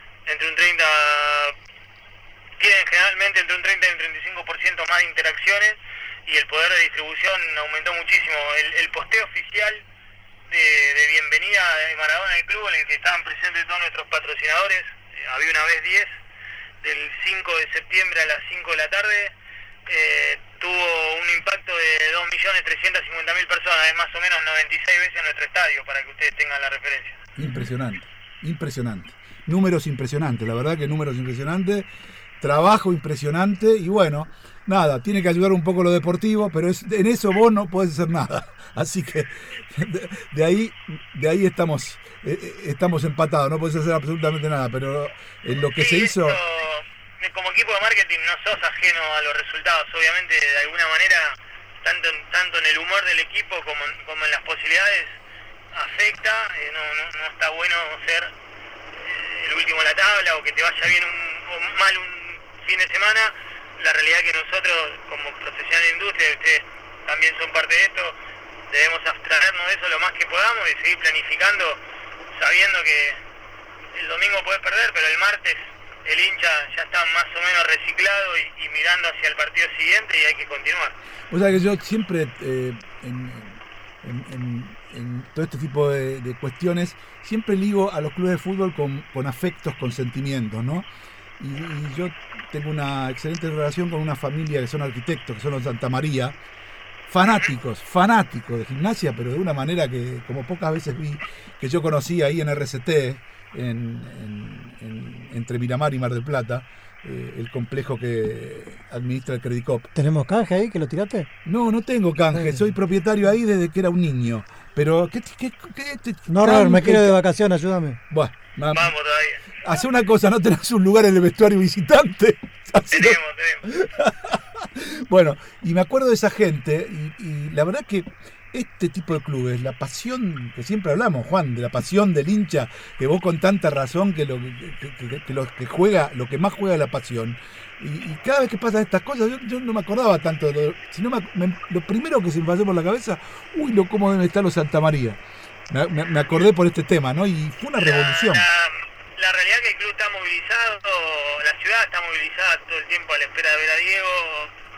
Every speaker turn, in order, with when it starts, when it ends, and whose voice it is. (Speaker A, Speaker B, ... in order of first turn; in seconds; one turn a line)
Speaker A: 0.2-1.5
Speaker A: 2.6-9.8
Speaker A: 10.5-16.1
Speaker A: 16.8-19.3
Speaker A: 19.9-27.2
Speaker B: 27.4-31.9
Speaker B: 32.4-46.4
Speaker A: 45.7-55.1
Speaker A: 55.7-58.3
Speaker A: 59.0-68.2
Speaker A: 68.7-71.8
Speaker A: 72.3-73.2
Speaker A: 74.0-81.0
Speaker B: 81.3-90.9
Speaker B: 91.4-96.3
Speaker B: 97.1-109.9
Speaker C: 109.9-111.3
Speaker B: 111.4-117.2
Speaker C: 116.3-118.0
Speaker B: 118.1-118.9
Speaker A: 118.7-119.4
Speaker B: 119.6-148.4
Speaker A: 122.9-123.7
Speaker A: 147.8-154.5